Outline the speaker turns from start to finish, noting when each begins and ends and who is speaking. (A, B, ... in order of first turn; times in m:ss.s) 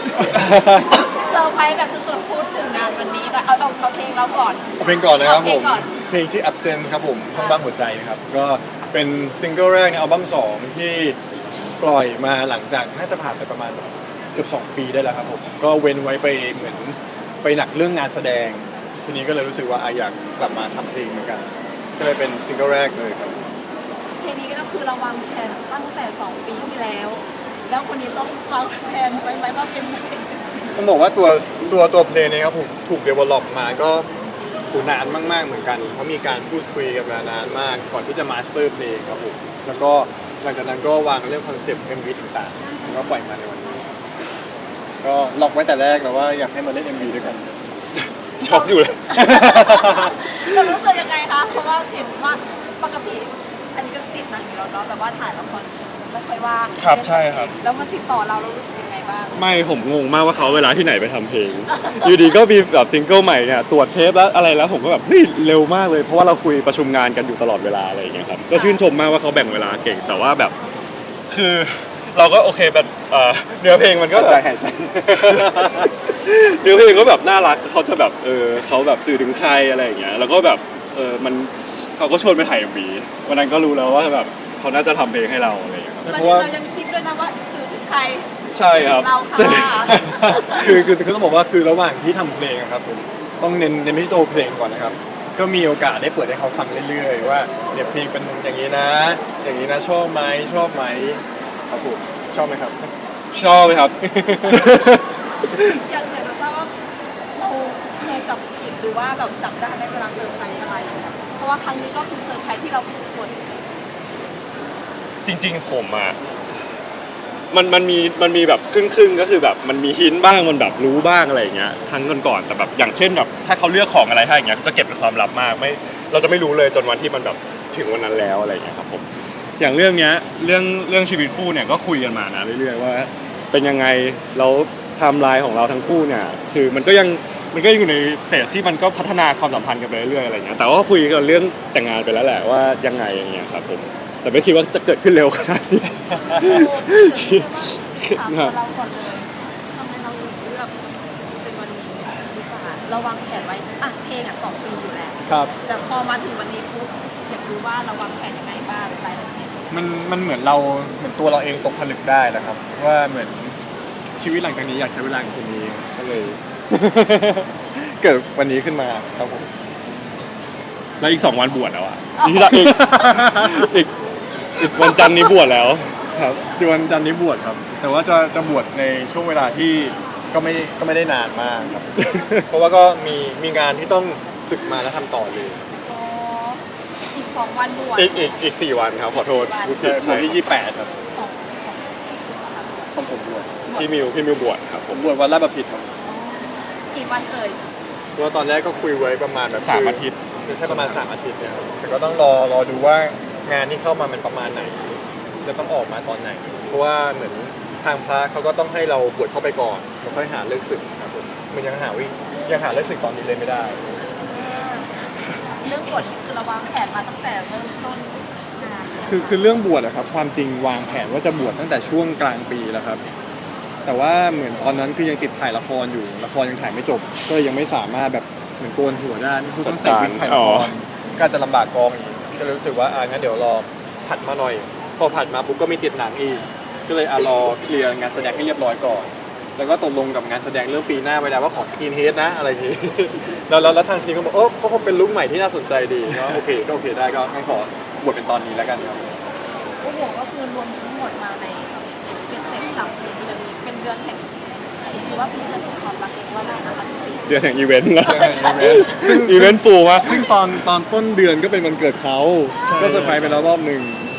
0:00.2-0:01.0 A
0:00.9-0:05.9 B
0:04.8-0:11.2 A
0:07.4-0:07.6 B
0:11.8-0:23.4 A
0:24.2-0:30.5 B
0:30.7-0:34.1 A
0:34.7-0:43.9 A
0:45.0-0:47.5 A
0:48.4-0:49.2 C
0:48.4-0:59.4 B
0:49.1-0:50.2 A
0:56.8-0:57.5 C
0:59.3-1:10.6 C
1:01.7-1:02.4 B
1:08.5-1:08.8 B
1:11.3-1:14.4 C
1:14.1-1:15.9 A
1:15.2-1:26.1 C
1:26.0-1:26.5 A
1:26.1-1:30.8 B
1:28.5-1:30.0 C
1:29.8-1:42.9 A
1:43.3-1:45.0 C
1:44.0-1:44.7 A
1:45.6-1:46.7 B
1:47.4-1:53.7 B
1:55.2-1:56.2 C
1:57.5-2:09.1 C
2:09.6-2:28.5 C
2:26.2-2:26.6 A
2:26.4-2:39.6 B
2:35.2-2:35.5 A
2:39.7-2:43.6 A
2:44.2-2:49.5 A
2:51.0-2:53.9 C
2:52.2-2:52.6 B
2:52.5-2:53.7 A
2:54.6-2:56.4 C
2:54.8-2:55.3 B
2:56.6-3:05.6 A
3:02.0-3:02.4 C
3:05.8-3:08.4 B
3:08.0-3:10.4 C
3:09.1-3:09.8 B
3:09.7-3:11.0 A
3:11.1-3:12.9 B
3:12.9-3:13.5 A
3:13.7-3:13.9 B
3:13.7-3:15.1 C
3:14.9-3:15.9 A
3:16.0-3:17.6 B
3:18.2-3:33.8 A
3:19.6-3:21.0 C
3:34.2-3:35.0 B
3:35.6-3:39.4 B
3:39.0-3:43.0 A
3:43.8-4:09.2 A
3:49.6-3:50.7 C
4:09.8-4:17.4 B
4:17.3-4:20.3 C
4:18.0-4:19.0 B
4:18.0-4:24.1 A
4:22.5-4:23.1 B
4:22.7-4:23.5 C